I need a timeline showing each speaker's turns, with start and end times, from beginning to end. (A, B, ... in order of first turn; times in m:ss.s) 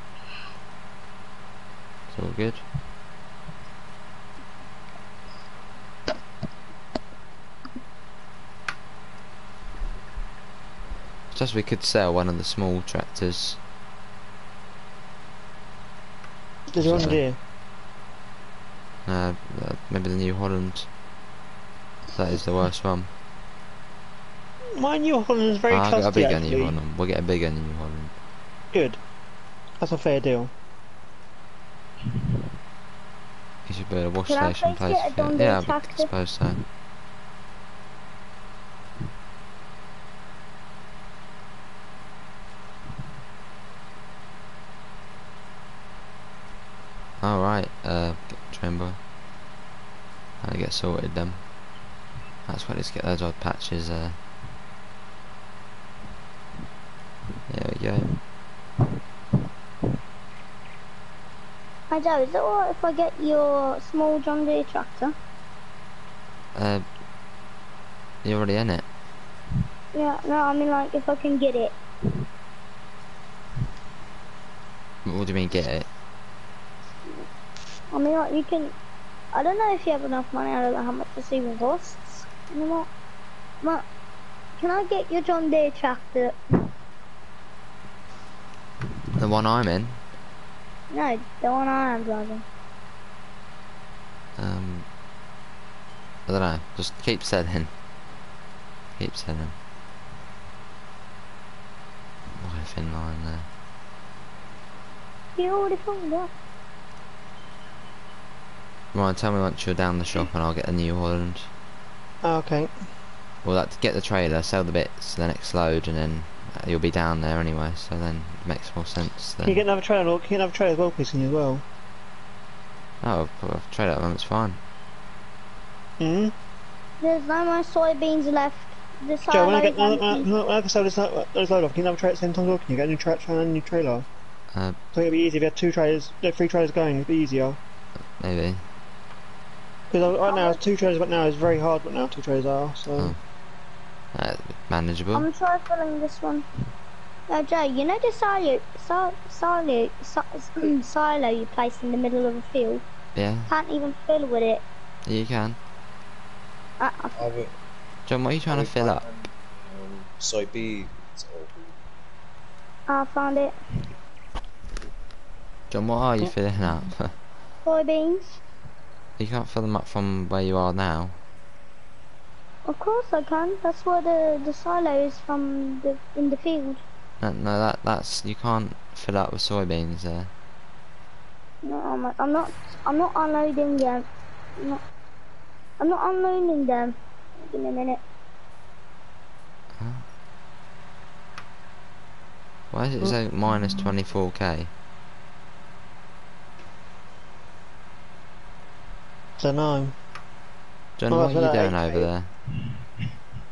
0:02.1-0:02.6 A
0:11.3-0:13.6 A
0:16.7-0:17.4 B
0:16.8-0:17.2 A
0:19.1-0:20.9 A
0:22.1-0:23.1 A
0:24.7-0:26.8 B
0:25.7-0:28.1 A
0:28.7-0:29.0 B
0:29.8-0:30.5 B
0:33.7-0:36.6 A
0:34.3-0:36.1 C
0:47.2-0:49.0 A
0:50.4-0:51.4 A
0:52.5-0:54.2 A
0:57.5-0:58.1 A
1:01.9-1:05.2 C
1:06.6-1:06.8 A
1:08.2-1:08.9 A
1:09.9-1:11.8 C
1:15.0-1:15.9 A
1:17.9-1:18.7 C
1:19.3-1:22.9 C
1:23.6-1:23.9 C
1:24.6-1:26.7 C
1:29.2-1:30.0 A
1:30.9-1:32.4 C
1:34.4-1:34.9 A
1:36.3-1:37.7 A
1:39.0-1:39.6 A
1:42.4-1:43.5 A
1:45.4-1:46.3 C
1:48.9-1:51.5 A
1:52.2-1:52.7 B
1:53.4-1:59.6 A
1:59.4-2:01.6 B
2:03.0-2:04.6 A
2:06.0-2:06.3 B
2:07.0-2:10.3 C
2:09.3-2:14.1 B
2:14.9-2:17.6 B
2:18.2-2:18.6 A
2:19.9-2:23.2 B
2:20.2-2:20.6 C
2:24.1-2:25.3 A
2:25.1-2:26.5 C
2:27.3-2:32.8 C
2:33.2-2:33.5 A
2:33.5-2:34.6 C
2:35.1-2:35.6 A
2:36.8-2:37.2 C
2:37.1-2:37.6 D
2:38.1-2:39.0 A
2:38.5-2:41.8 D
2:42.9-2:43.6 C
2:45.7-2:47.2 A
2:47.6-2:48.4 C
2:49.2-2:51.2 A
2:52.7-2:56.8 C
2:57.2-3:00.3 A
3:01.6-3:04.8 C
3:05.8-3:08.0 C
3:09.8-3:10.0 A
3:12.7-3:14.7 A
3:13.0-3:13.9 B
3:19.4-3:20.0 B
3:21.0-3:22.3 A
3:21.1-3:22.1 B